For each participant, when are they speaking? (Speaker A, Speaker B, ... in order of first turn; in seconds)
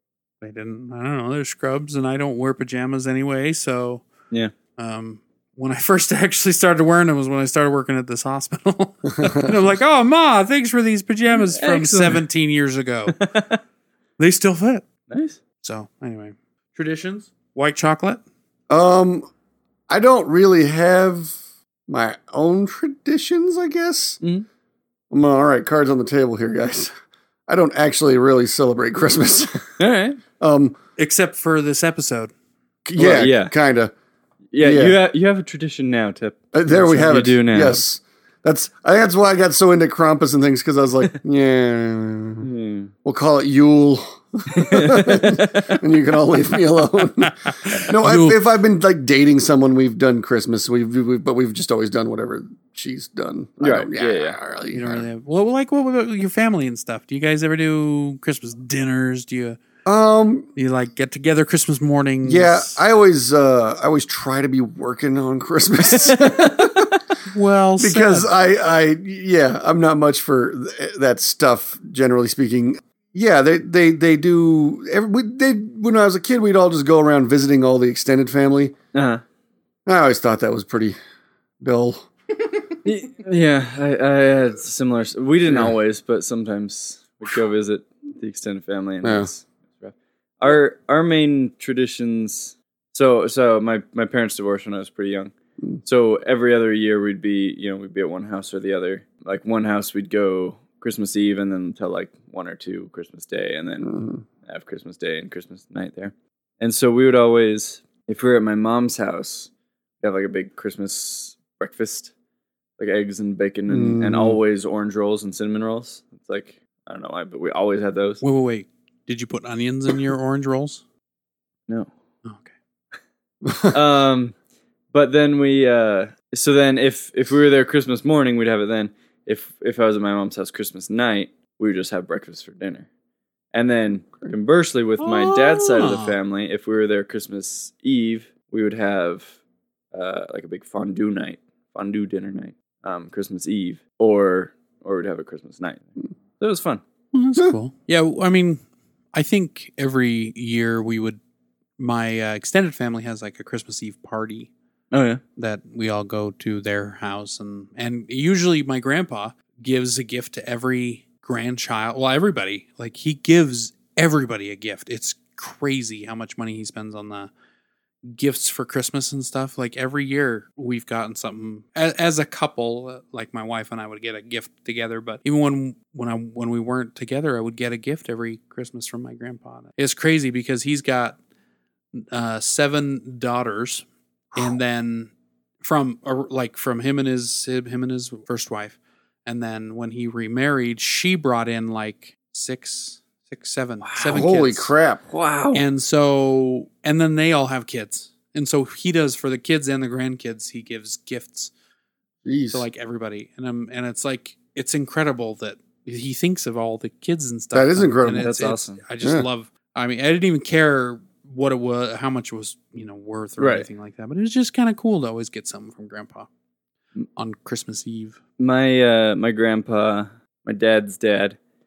Speaker A: 0.4-4.0, 4.8-13.2, 14.2-14.8, 15.6-18.2, 31.0-32.3, 47.2-48.4, 54.7-59.6, 60.5-62.8, 67.3-68.3, 118.2-120.8, 122.2-122.5, 135.0-136.2, 147.1-148.6, 149.1-151.2, 151.8-154.5, 155.4-167.3, 168.1-181.2, 181.9-194.7, 195.5-201.5, 202.5-216.3, 217.2-218.2
Speaker B: 9.1-9.6, 18.7-19.3, 19.9-21.4, 21.9-24.2, 25.1-26.9, 27.5-29.6, 30.4-30.8, 32.9-33.9, 34.6-35.0, 36.5-42.5, 43.0-55.1, 59.8-60.5, 62.2-66.9, 67.8-78.7, 79.8-81.0, 81.6-82.1, 85.4-85.7, 89.0-89.3, 103.8-104.2, 113.7-114.4, 123.4-123.8, 194.1-195.0, 202.2-202.6, 207.5-208.3, 209.0-209.3
Speaker C: 11.4-12.2, 13.1-13.6, 15.1-15.4, 29.8-30.2, 33.0-33.5, 34.5-37.8, 42.4-42.9, 44.5-45.8, 53.6-54.4, 66.0-66.7, 78.9-79.2, 82.8-95.3, 95.8-109.5, 110.0-112.1, 112.8-118.2, 123.7-124.3, 124.9-132.8, 133.5-139.3, 139.9-145.9, 146.4-146.8, 154.9-155.2, 193.8-194.2, 195.1-195.6, 208.2-208.8, 213.4-213.7, 218.4-221.4